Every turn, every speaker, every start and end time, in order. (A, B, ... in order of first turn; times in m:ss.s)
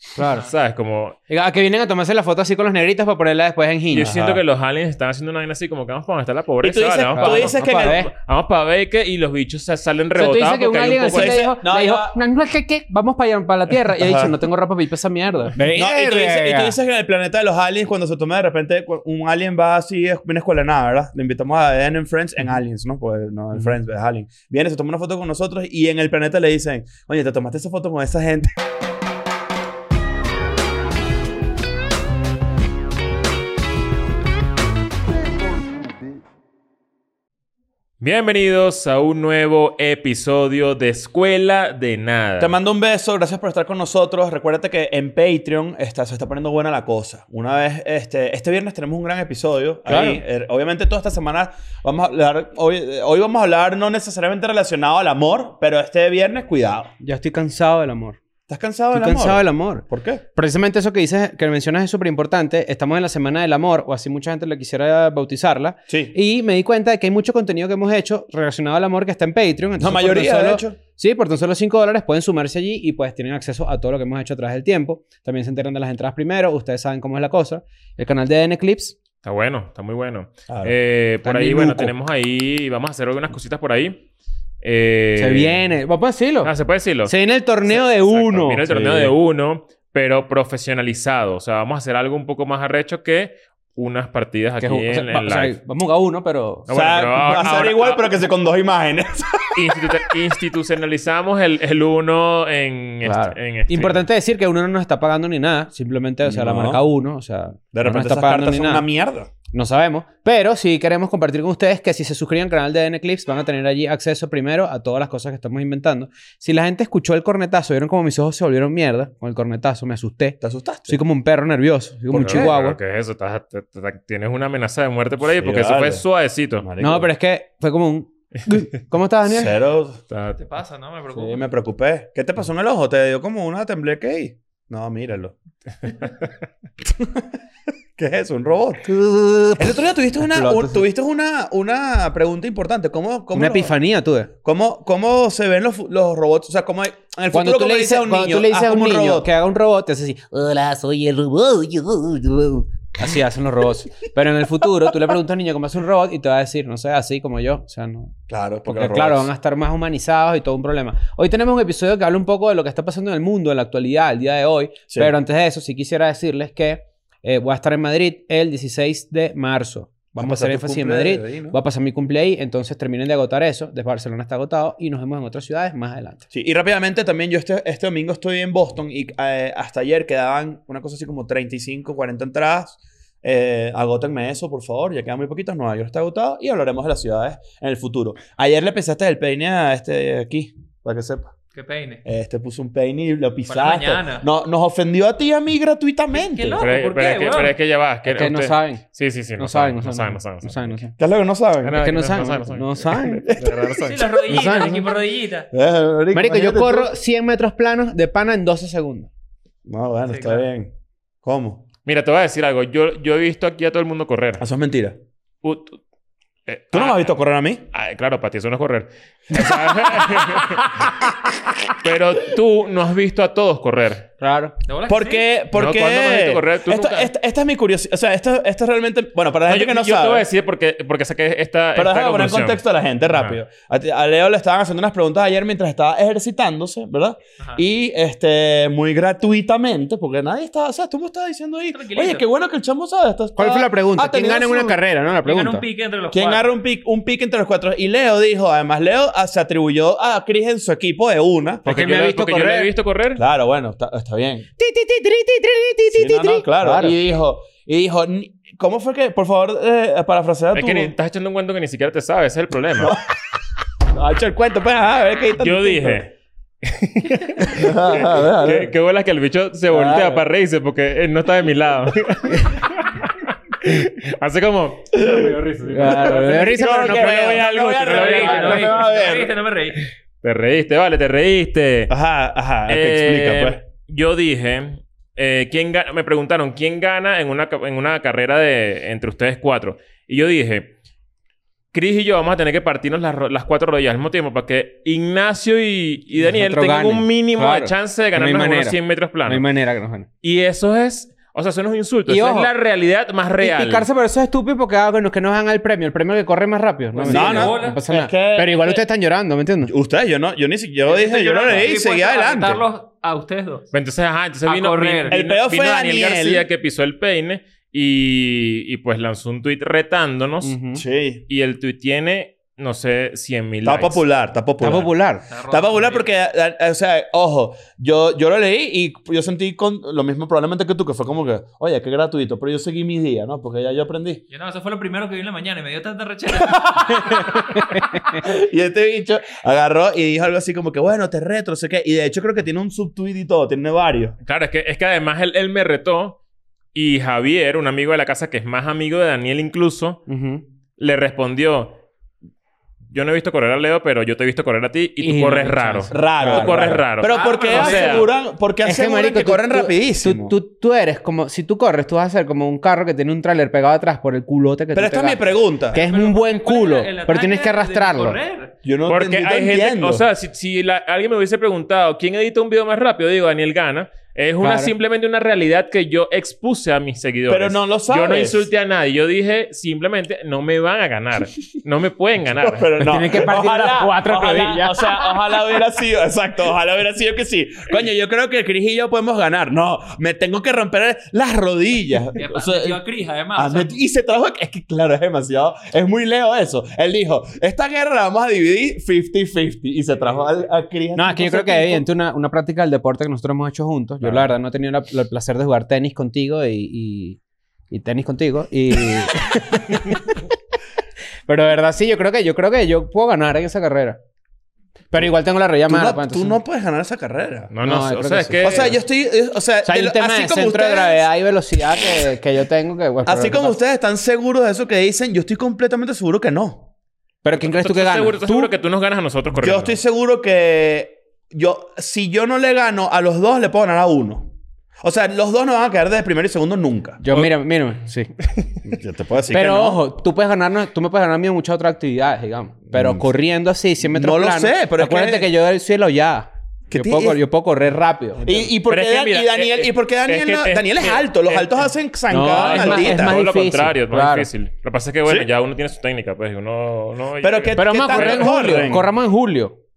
0:00.1-0:00.5 A
0:00.3-0:01.2 B
0:01.3-0:04.1 A
0:03.9-0:11.4 B
0:04.1-0:04.4 C
0:06.6-0:08.0 C
0:07.2-0:08.1 A
0:10.1-0:16.8 A
0:11.1-0:12.2 C
0:14.0-0:14.3 C
0:15.7-0:28.5 C
0:38.0-0:42.5 B
0:42.4-0:56.9 C
0:49.8-0:50.2 A
0:57.0-0:58.2 A
0:58.5-1:00.2 C
0:58.9-1:19.0 A
1:09.8-1:10.8 C
1:19.2-1:24.0 B
1:20.5-1:20.7 C
1:21.2-1:21.9 A
1:24.6-1:25.6 B
1:25.2-1:26.5 A
1:26.4-1:27.1 B
1:27.0-1:28.6 A
1:27.7-1:35.5 B
1:28.7-1:29.1 C
1:34.6-1:36.7 A
1:36.7-1:38.1 B
1:36.7-1:39.8 C
1:39.5-1:44.0 B
1:43.0-1:48.8 A
1:46.2-1:46.8 C
1:47.7-1:49.3 C
1:49.5-2:02.8 A
2:00.4-2:01.0 C
2:02.1-2:02.5 C
2:02.1-2:06.7 B
2:05.4-2:06.0 C
2:06.6-2:07.1 C
2:06.8-2:09.5 A
2:09.3-2:10.0 C
2:10.1-2:10.4 B
2:10.4-2:11.4 D
2:11.1-2:15.3 C
2:16.9-2:17.2 C
2:18.0-2:18.8 C
2:18.8-2:20.8 A
2:19.6-2:23.7 C
2:23.3-2:24.3 A
2:24.4-2:29.3 C
2:27.3-2:56.2 A
2:38.3-2:39.3 C
2:50.2-2:51.6 C
2:56.3-3:11.3 C
3:11.5-3:12.0 D
3:12.0-3:16.6 C
3:13.5-3:14.3 D
3:16.1-3:17.5 D
3:16.6-3:20.8 B
3:18.0-3:18.8 A
3:19.4-3:20.9 A
3:21.0-3:22.3 C
3:21.6-3:24.2 B
3:21.7-3:23.4 A
3:23.8-3:25.5 D
3:24.2-3:24.9 A
3:25.5-3:26.9 C
3:26.1-3:29.1 A
3:29.6-3:30.7 C
3:30.1-3:30.4 D
3:31.2-3:31.6 C
3:31.8-3:34.4 B
3:34.4-3:35.0 C
3:35.4-3:35.8 B
3:36.5-3:37.2 B
3:36.7-3:37.6 C
3:37.7-3:40.9 B
3:39.4-3:40.5 C
3:41.8-3:44.1 B
3:44.2-3:44.5 A
3:44.6-3:45.3 D
3:44.9-3:50.2 C
3:45.5-3:47.1 B
3:49.5-3:53.4 B
3:51.7-4:04.8 C
4:01.7-4:02.2 D
4:03.4-4:05.6 A
4:05.2-4:06.5 D
4:06.1-4:11.6 C
4:11.6-4:12.7 A
4:11.6-4:13.2 B
4:13.2-4:14.5 C
4:14.6-4:16.9 A
4:15.9-4:20.9 C
4:20.5-4:22.9 B
4:23.9-4:26.0 C
4:25.4-4:38.9 B
4:27.4-4:28.7 C
4:29.7-4:30.2 C
4:35.0-4:39.3 C
4:35.7-4:37.5 A
4:37.8-4:39.8 D
4:40.2-4:41.9 B
4:41.9-4:43.6 C
4:42.7-4:50.7 B
4:51.7-4:59.4 B
4:56.2-5:00.1 A
5:00.2-5:03.8 B
5:02.1-5:02.5 A
5:03.4-5:09.7 A
5:07.0-5:07.8 D
5:07.0-5:08.8 C
5:09.6-5:12.6 C
5:10.8-5:13.7 D
5:13.7-5:20.6 B
5:14.4-5:15.1 D
5:15.1-5:16.4 C
5:20.4-5:20.8 A
5:20.7-5:21.2 C
5:21.3-5:24.0 B
5:23.6-5:24.9 C
5:24.6-5:25.3 A
5:25.3-5:26.1 D
5:25.5-5:34.2 C
5:34.3-5:37.9 D
5:36.5-5:44.2 C
5:37.5-5:37.8 A
5:44.2-5:46.2 B
5:46.7-5:50.0 B
5:50.1-5:50.4 A
5:50.8-5:51.8 B
5:52.9-5:58.1 B
5:55.0-5:56.8 A
5:55.9-6:00.4 C
5:57.0-5:58.1 D
5:58.6-6:08.2 A
6:04.7-6:05.8 C
6:05.7-6:08.5 D
6:08.6-6:10.0 C
6:08.8-6:22.7 B
6:14.4-6:14.7 A
6:17.3-6:18.5 C
6:22.4-6:32.8 C
6:22.8-6:25.4 A
6:32.2-6:33.8 D
6:33.4-6:41.8 C
6:40.0-6:40.3 D
6:40.9-6:47.2 A
6:44.0-6:44.3 C
6:47.7-6:50.3 A
6:51.3-6:54.0 A
6:54.9-6:56.4 A
6:55.7-6:57.5 C
6:57.5-6:58.8 B
6:57.6-6:58.8 A
6:58.4-7:01.0 C
6:59.6-7:03.6 A
7:03.0-7:06.7 C
7:07.2-7:08.5 A
7:07.3-7:09.8 B
7:09.4-7:17.0 C
7:17.0-7:18.1 A
7:18.7-7:19.8 C
7:19.3-7:28.5 A
7:22.7-7:23.0 C
7:23.8-7:25.3 C
7:26.7-7:27.2 C
7:28.2-7:33.2 C
7:28.7-7:31.7 B
7:32.1-7:34.3 A
7:32.2-7:38.8 B
7:37.2-7:38.9 C
7:37.5-7:39.6 A